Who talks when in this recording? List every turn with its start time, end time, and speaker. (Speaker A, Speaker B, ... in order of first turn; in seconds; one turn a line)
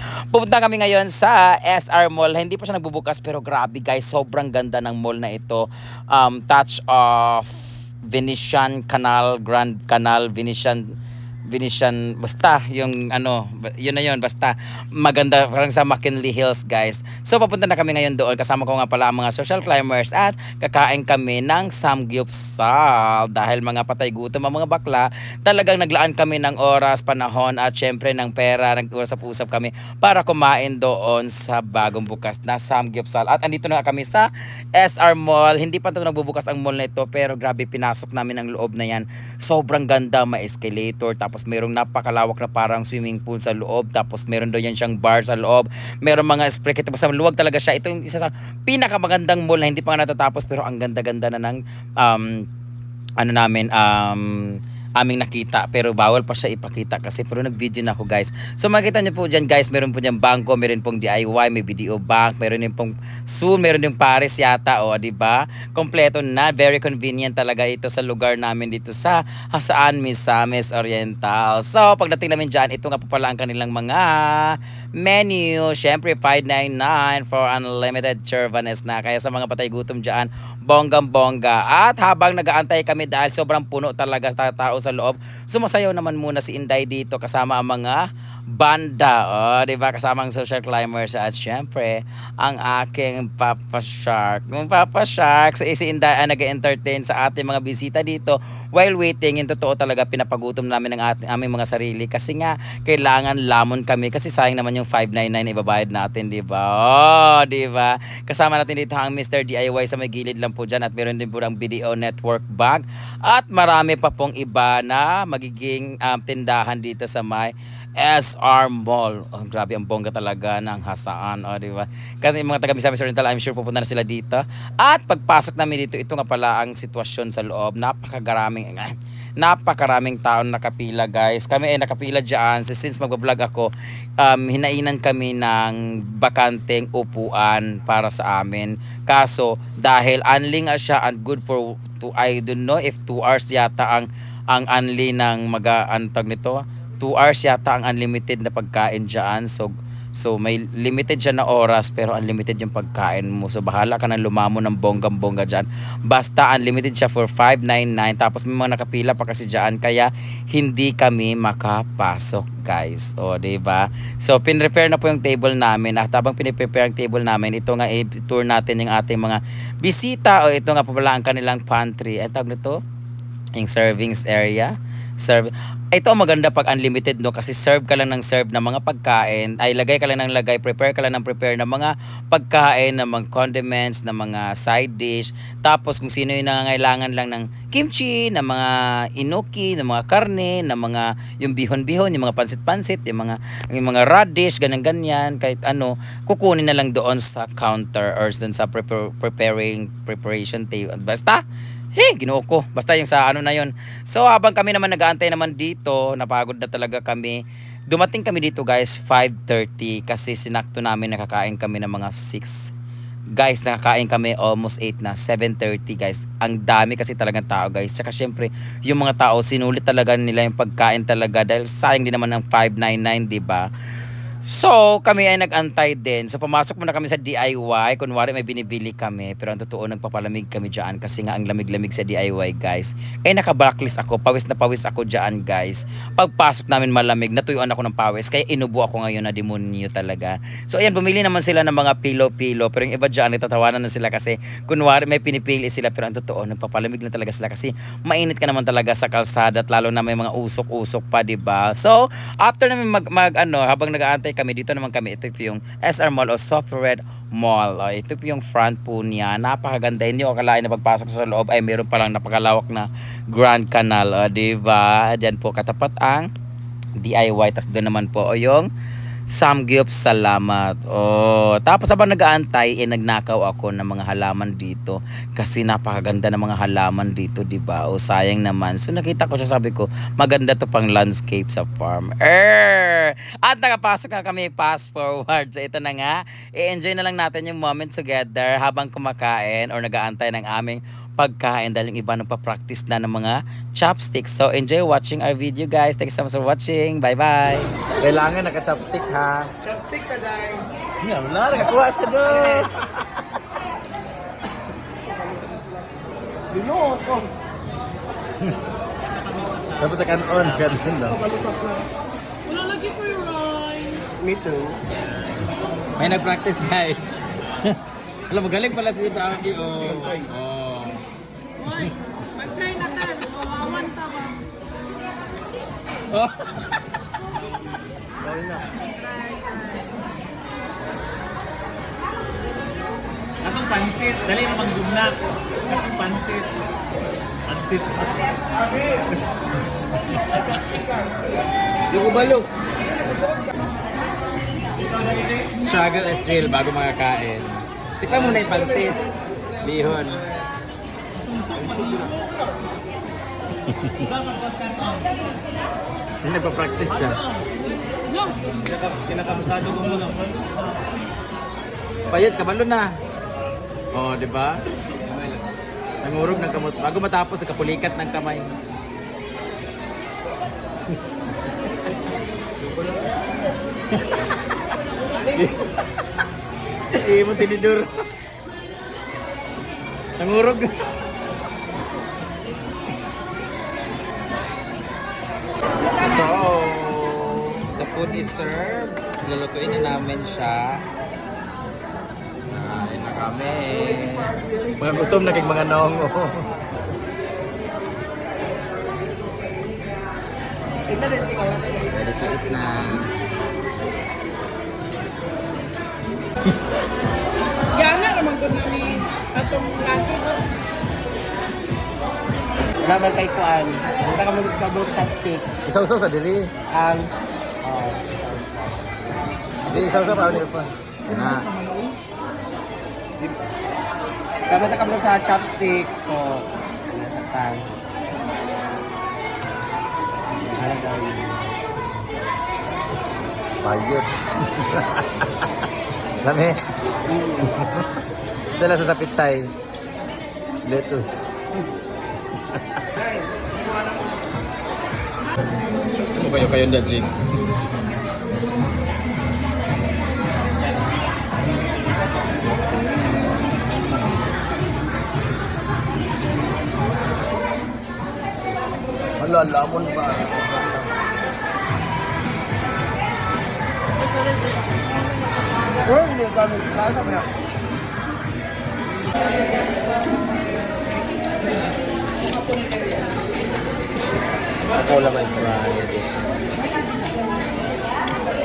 Speaker A: 0.3-10.8
Speaker A: 11.5-52.3
Speaker A: 53.2-88.0
Speaker A: 88.6-133.7
Speaker A: 134.2-172.8
Speaker A: 173.6-201.4
Speaker A: 202.0-207.4
Speaker A: 207.9-212.7
Speaker A: 213.4-223.7
Speaker A: 224.4-266.3
Speaker A: 267.0-268.7
Speaker A: 269.3-299.5
Speaker B: 299.6-300.6
Speaker A: 301.0-302.8
Speaker B: 306.5-307.3
Speaker A: 309.8-311.3
Speaker B: 311.4-311.8
Speaker B: 314.2-314.8
Speaker A: 316.0-317.8
Speaker A: 318.3-321.0
Speaker A: 321.6-324.1
Speaker A: 326.1-326.6
Speaker C: 333.5-335.2
Speaker C: 335.9-336.4
Speaker B: 341.9-342.5
Speaker A: 345.6-349.0
Speaker A: 349.6-350.3
Speaker B: 351.6-352.2
Speaker A: 353.7-354.0
Speaker A: 356.2-357.2
Speaker B: 358.8-360.1
Speaker A: 362.1-363.0
Speaker A: 363.9-364.6
Speaker A: 366.0-368.5
Speaker A: 377.0-377.9
Speaker A: 380.2-380.7
Speaker A: 385.9-390.8
Speaker A: 392.5-396.5
Speaker B: 400.9-402.5
Speaker A: 401.9-403.1
Speaker D: 407.8-410.1
Speaker B: 412.8-415.5
Speaker A: 415.7-416.5
Speaker B: 416.7-419.0
Speaker A: 419.7-421.5
Speaker B: 419.8-420.3
Speaker B: 424.5-427.7
Speaker B: 430.5-431.6
Speaker A: 433.6-435.5
Speaker A: 436.2-436.6
Speaker B: 437.1-437.5
Speaker A: 437.4-437.9
Speaker A: 438.5-439.5
Speaker A: 440.6-441.3
Speaker A: 442.4-442.7
Speaker B: 442.9-444.1
Speaker A: 446.1-447.1
Speaker A: 459.2-460.8
Speaker B: 465.8-467.3
Speaker A: 474.9-476.1